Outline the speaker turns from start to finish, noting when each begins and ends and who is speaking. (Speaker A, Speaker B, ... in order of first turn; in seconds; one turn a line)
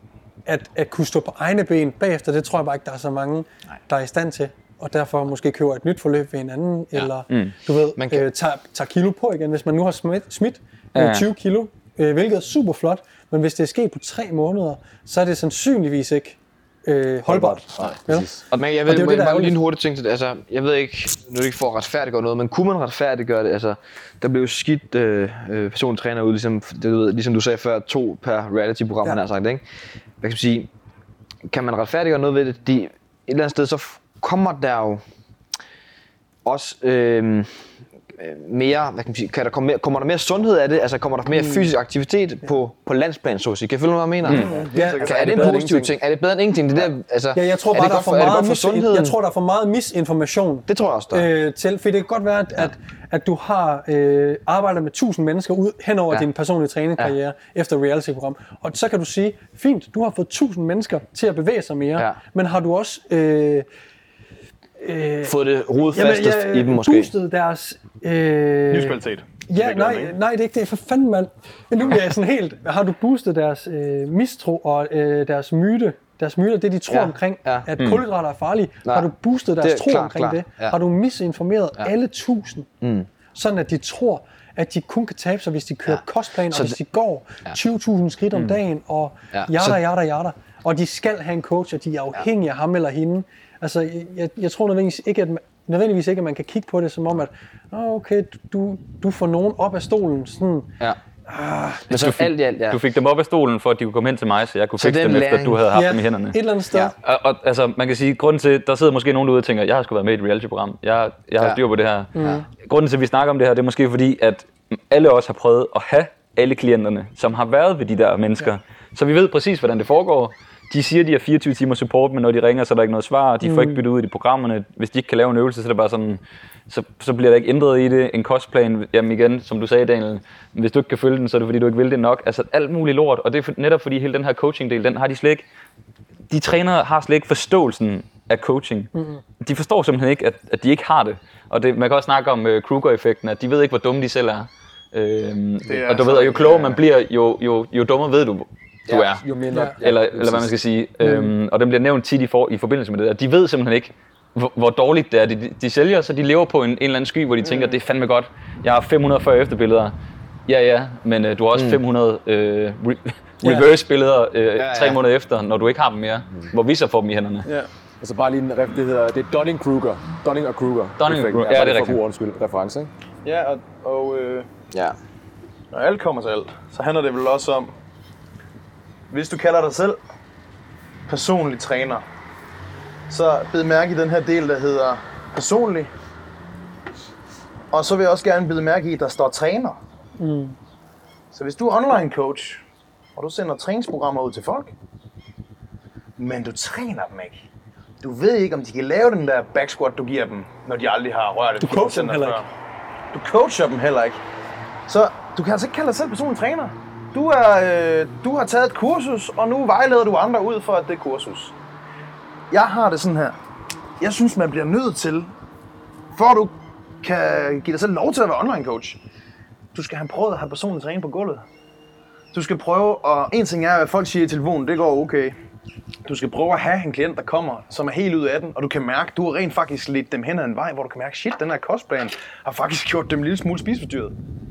Speaker A: 0.5-18.3
Speaker B: 8.0-8.2
Speaker C: 10.9-11.3
Speaker D: 17.3-18.4
Speaker B: 18.5-29.6
Speaker A: 18.8-19.6
Speaker B: 30.2-30.7
Speaker B: 31.5-35.0
Speaker B: 36.4-49.1
Speaker E: 44.2-45.6
Speaker A: 44.7-45.5
Speaker D: 45.0-45.9
Speaker A: 47.3-63.6
Speaker B: 50.7-51.3
Speaker A: 64.8-65.3
Speaker B: 65.2-67.1
Speaker A: 65.9-82.7
Speaker E: 68.7-70.1
Speaker B: 76.9-77.7
Speaker C: 77.8-78.0
Speaker B: 78.8-80.8
Speaker B: 82.8-83.1
Speaker A: 83.3-100.7
Speaker B: 85.9-86.8
Speaker B: 88.3-88.6
Speaker B: 89.3-89.8
Speaker A: 101.3-101.8
Speaker B: 101.9-102.8
Speaker C: 101.9-106.4
Speaker B: 104.8-105.6
Speaker A: 105.7-106.9
Speaker C: 107.0-135.4
Speaker A: 112.2-112.4
Speaker A: 123.4-123.8
Speaker C: 136.3-149.2
Speaker A: 138.9-139.2
Speaker E: 145.7-146.8
Speaker D: 148.9-150.6
Speaker C: 149.8-159.9
Speaker A: 151.0-151.3
Speaker C: 160.5-167.5
Speaker B: 161.5-161.8
Speaker A: 163.4-163.7
Speaker B: 164.6-165.0
Speaker D: 168.0-172.9
Speaker C: 171.0-172.0
Speaker E: 173.2-174.5
Speaker B: 174.7-175.0
Speaker E: 175.7-177.7
Speaker E: 179.1-180.0
Speaker E: 181.1-182.0
Speaker E: 183.1-185.9
Speaker E: 187.7-189.8
Speaker A: 190.2-190.6
Speaker E: 191.3-192.6
Speaker E: 193.2-194.7
Speaker E: 196.2-197.4
Speaker E: 198.0-202.4
Speaker A: 201.6-202.4
Speaker E: 203.1-204.2
Speaker E: 204.9-211.5
Speaker E: 212.5-213.4
Speaker E: 214.0-215.3
Speaker E: 216.1-219.0
Speaker E: 219.7-221.4
Speaker E: 222.3-225.3
Speaker E: 226.1-234.1